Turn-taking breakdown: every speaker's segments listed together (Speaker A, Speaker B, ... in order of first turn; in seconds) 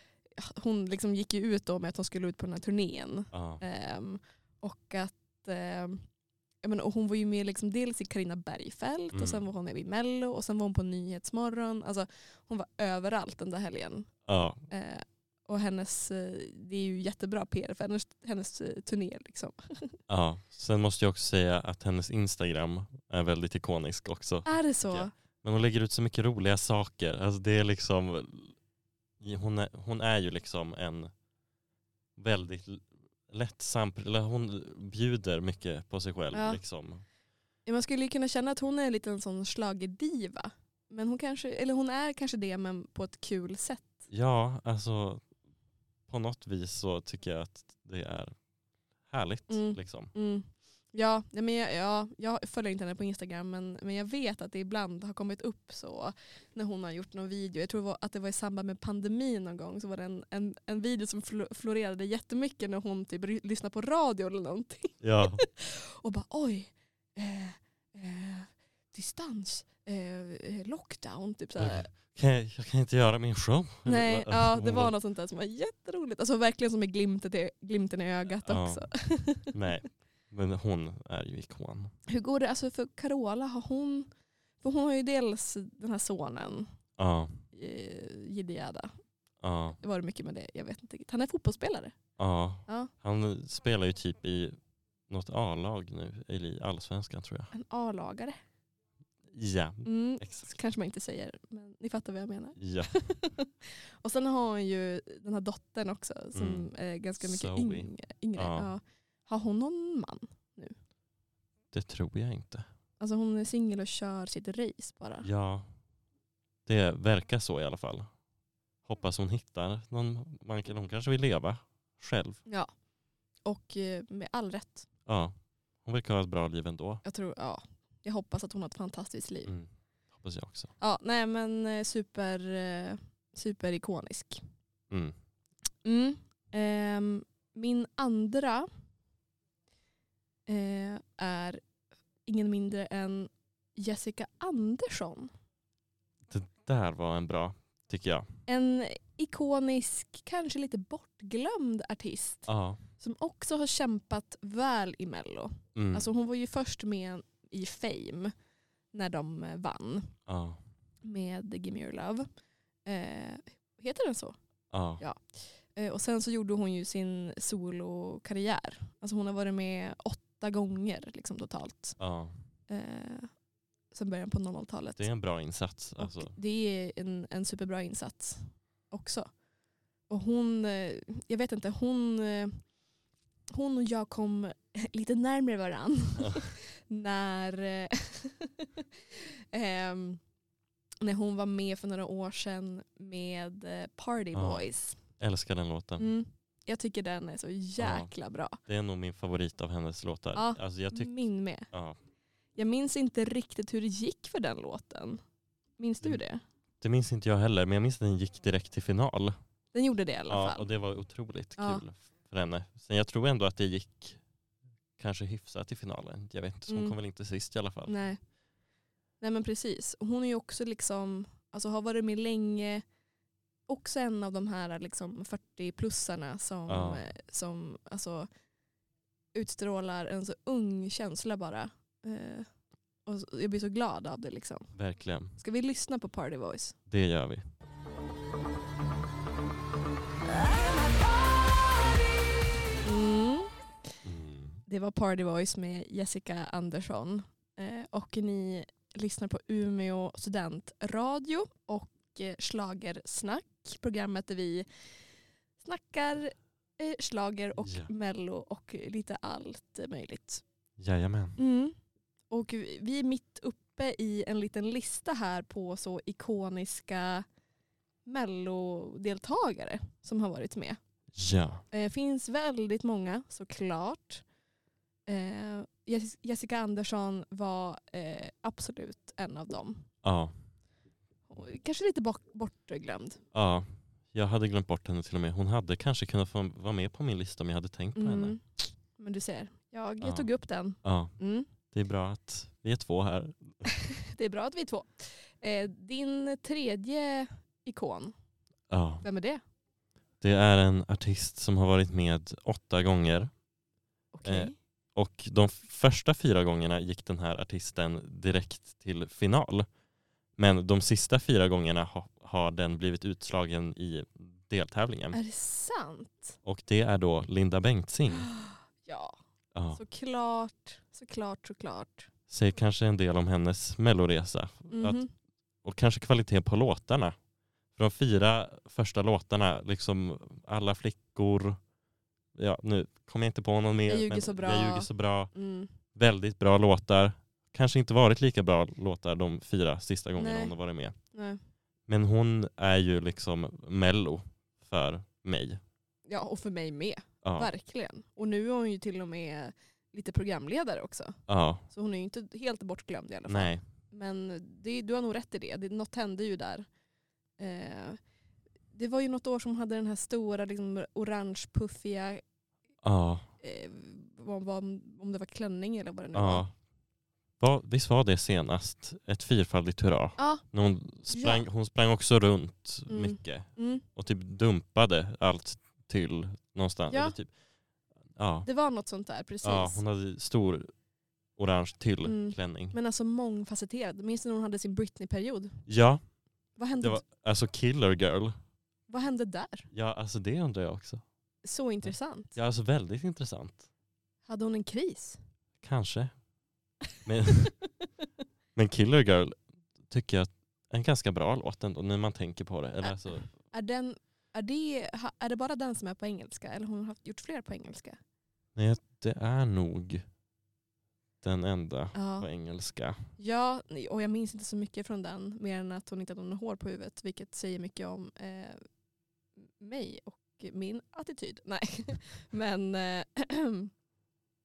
Speaker A: 0.3-6.0, 6.6-14.1, 14.7-20.0, 24.5-25.1, 36.3-36.6, 37.7-44.0, 49.5-71.9, 73.9-79.6, 82.1-84.1, 84.6-86.7, 87.5-89.0, 89.8-92.0, 97.5-98.4, 99.8-110.8, 113.0-115.3, 123.5-124.9, 127.0-129.5, 130.8-134.4, 135.8-138.7, 140.5-141.6, 142.3-145.3, 148.5-158.3, 158.9-160.2, 161.0-162.3, 162.8-164.4, 165.7-172.0, 172.7-173.3, 173.9-175.1, 176.0-179.3, 180.1-182.6, 183.5-190.2, 191.0-195.0, 196.0-198.6, 200.3-201.7, 202.6-205.2, 205.8-206.4, 209.7-210.7, 211.6-211.8, 216.7-217.0, 217.9-218.2, 219.2-222.8, 223.7-228.3, 229.3-232.5, 233.1-234.7, 235.4-236.8, 242.8-243.5, 244.7-254.7, 255.6-260.4, 261.4-261.8, 262.3-267.3, 268.1-270.8, 271.7-274.2, 275.1-279.9, 281.3-283.2, 288.0-288.4, 288.9-291.5, 293.7-298.1, 299.0-299.4, 304.1-304.6, 315.1-316.4, 318.1-319.2, 319.7-322.1, 324.7-325.1, 333.9-335.7, 340.2-340.6, 341.1-341.4, 346.1-351.2, 351.7-356.7, 357.4-358.0, 358.7-362.2, 363.4-366.5, 370.2-370.4, 371.1-371.4, 372.9-373.9, 376.9-377.2, 378.4-379.8, 382.1-385.6, 386.6-387.0, 388.9-389.7, 391.4-392.4, 394.3-395.2, 403.5-408.0, 411.9-412.3, 413.2-418.6, 419.6-423.7
Speaker B: 3.3-3.6, 9.1-9.4, 14.3-14.6, 20.1-28.6, 29.2-31.1, 32.2-37.0, 44.1-45.2, 46.1-48.4, 49.1-50.1, 65.0-65.4, 71.6-74.9, 78.5-78.9, 79.5-81.9, 87.0-87.4, 89.4-89.8, 92.2-94.6, 95.1-97.5, 99.3-100.5, 102.6-102.9, 106.3-106.7, 107.2-108.7, 111.7-112.7, 115.2-115.7, 116.7-118.1, 118.8-122.4, 125.1-127.0, 129.5-130.7, 134.9-135.2, 146.3-148.3, 152.5-152.8, 155.8-156.1, 160.3-160.6, 164.7-165.0, 172.0-172.3, 175.0-176.4, 194.3-194.6, 195.2-196.1, 197.8-198.1, 198.7-201.1, 201.7-202.0, 206.8-209.4, 210.3-214.2, 215.0-218.0, 226.7-227.1, 234.8-235.4, 236.9-237.4, 244.0-244.6, 257.6-257.9, 260.8-261.4, 271.1-271.6, 280.0-280.3, 283.3-288.4, 290.0-290.3, 290.8-291.1, 291.7-293.6, 298.7-299.1, 300.2-303.3, 304.2-309.7, 310.4-315.2, 316.4-318.3, 319.6-319.8, 322.3-325.0, 325.6-327.1, 327.8-331.6, 332.4-335.3, 335.9-340.9, 341.9-345.6, 347.2-347.5, 351.3-351.6, 353.3-353.6, 362.8-363.3, 366.1-366.5, 367.4-377.3, 378.2-378.5, 379.4-380.7, 381.4-382.8, 385.7-386.0, 386.8-388.4, 389.7-391.0, 391.8-393.7, 395.6-396.1, 397.1-397.6, 398.6-403.3, 408.6-410.1, 411.2-413.0